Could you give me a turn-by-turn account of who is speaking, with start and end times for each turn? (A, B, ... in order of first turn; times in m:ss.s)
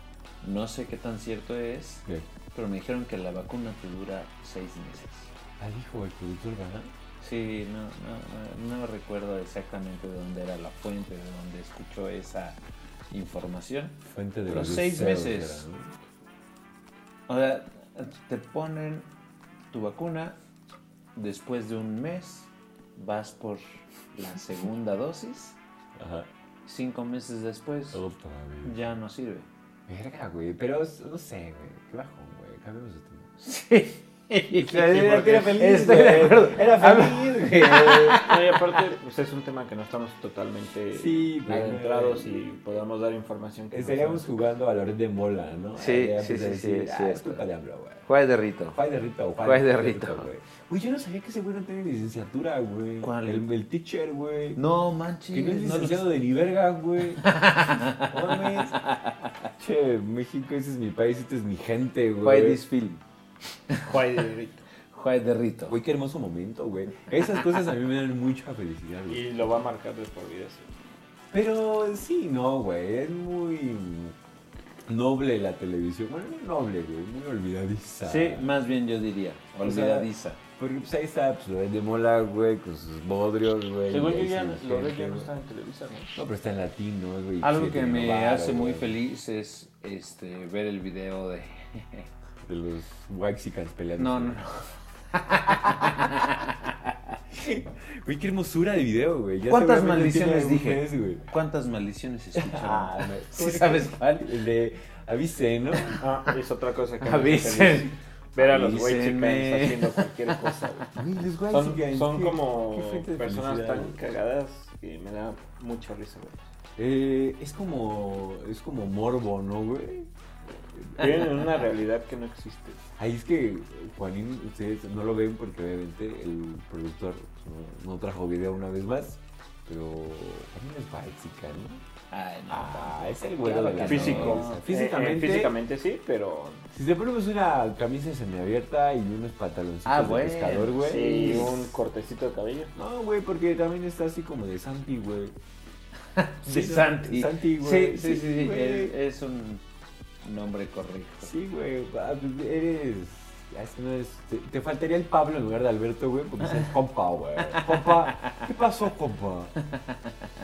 0:00.4-0:05.3 A
0:05.6-0:06.9 B
0:07.2-0:15.7 A
0:14.0-0:15.9 B
0:17.3-0:19.1 A
0:19.7-0:20.4 A
0:21.1-0:25.6 A
0:26.0-0:26.3 B
0:26.6-0:28.0 A
0:27.9-0:28.8 B
0:28.6-0:29.5 A
0:29.9-0:33.3 B
0:33.4-0:38.5 A
0:34.6-0:38.3 B
0:38.1-0:44.2 C
0:40.9-0:42.5 B
0:43.7-0:48.0 B
0:45.8-0:47.4 A
0:48.0-0:48.8 A
0:48.7-0:54.6 B
0:49.4-0:50.3 A
0:53.0-0:53.5 A
0:54.6-0:56.1 A
0:55.3-0:57.3 B
0:57.2-0:59.3 A
0:58.0-0:58.8 B
0:59.6-1:02.6 B
1:02.2-1:03.0 A
1:03.8-1:04.6 C
1:04.9-1:05.8 A
1:05.7-1:09.4 B
1:09.1-1:10.7 C
1:11.3-1:14.2 B
1:14.9-1:18.5 B
1:18.0-1:20.4 A
1:19.6-1:25.3 B
1:23.9-1:26.1 C
1:26.1-1:29.0 B
1:27.4-1:32.1 A
1:32.4-1:34.4 B
1:34.0-1:36.7 A
1:35.6-1:36.1 B
1:37.3-1:41.2 B
1:39.5-1:44.3 A
1:42.3-1:46.0 B
1:46.0-1:50.9 C
1:47.0-1:50.8 A
1:50.9-1:54.0 B
1:51.5-1:56.5 C
1:56.8-2:00.1 B
2:00.7-2:01.3 B
2:01.0-2:02.8 C
2:03.0-2:11.8 B
2:12.1-2:14.6 A
2:12.5-2:15.5 B
2:13.8-2:16.7 C
2:16.7-2:21.7 B
2:19.8-2:21.5 A
2:20.8-2:22.7 C
2:22.7-2:25.3 B
2:26.1-2:29.6 A
2:26.4-2:28.9 B
2:30.2-2:31.3 A
2:31.2-2:39.5 B
2:37.4-2:38.5 A
2:39.6-2:40.1 A